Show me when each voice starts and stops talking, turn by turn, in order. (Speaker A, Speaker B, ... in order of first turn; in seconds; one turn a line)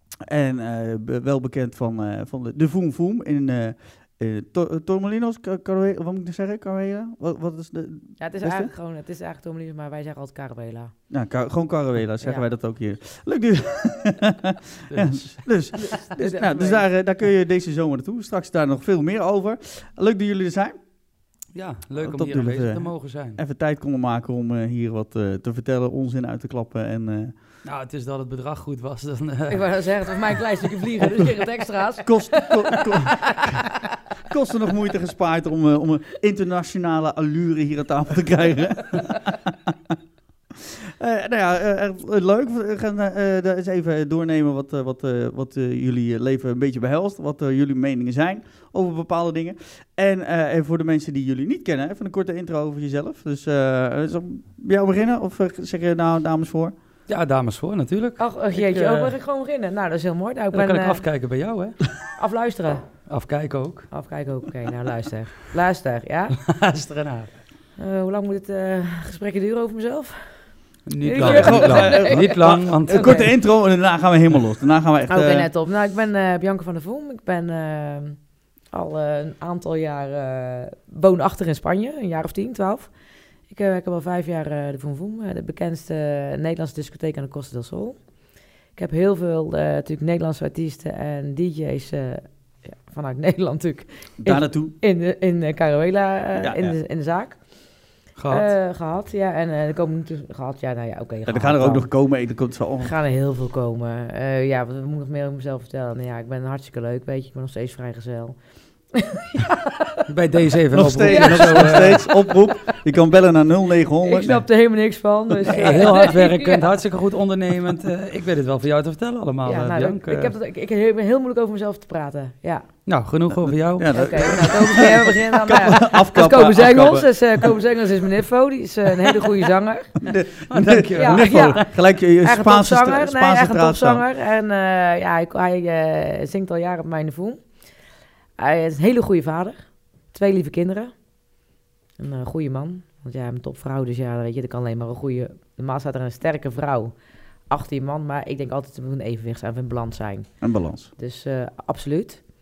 Speaker A: 0.2-8.7
Speaker B: 8.2-10.9
Speaker A: 11.1-20.8
Speaker B: 12.2-12.5
Speaker C: 14.9-15.4
Speaker B: 15.7-16.9
Speaker C: 21.5-23.4
Speaker A: 22.0-27.4
Speaker C: 27.6-29.6
Speaker B: 29.5-33.8
Speaker A: 32.0-33.7
Speaker A: 34.3-40.0
Speaker A: 40.5-56.7
Speaker C: 57.1-59.1
Speaker B: 58.2-61.0
Speaker C: 60.5-61.8
Speaker B: 62.2-62.8
Speaker C: 63.1-63.9
Speaker B: 63.9-66.4
Speaker C: 66.4-67.3
Speaker B: 67.8-70.3
Speaker C: 70.9-73.4
Speaker B: 71.0-73.2
Speaker A: 71.1-75.5
Speaker B: 75.1-78.2
Speaker B: 78.7-82.9
Speaker B: 83.5-88.0
Speaker B: 88.8-97.4
Speaker A: 94.2-94.7
Speaker A: 96.4-96.8
Speaker C: 98.2-98.5
Speaker B: 98.3-101.9
Speaker A: 101.3-102.9
Speaker B: 102.8-108.4
Speaker B: 108.9-110.1
Speaker C: 110.1-112.0
Speaker A: 110.7-114.5
Speaker B: 111.0-112.8
Speaker B: 114.0-116.7
Speaker C: 115.5-120.3
Speaker B: 119.5-122.7
Speaker C: 122.9-124.4
Speaker A: 123.3-127.5
Speaker B: 123.9-129.9
Speaker A: 130.0-134.0
Speaker C: 130.5-131.6
Speaker B: 130.9-131.7
Speaker B: 132.2-137.4
Speaker B: 138.4-139.6
Speaker B: 140.1-140.9
Speaker B: 142.0-146.9
Speaker B: 147.5-150.3
Speaker A: 150.4-150.9
Speaker B: 151.0-152.2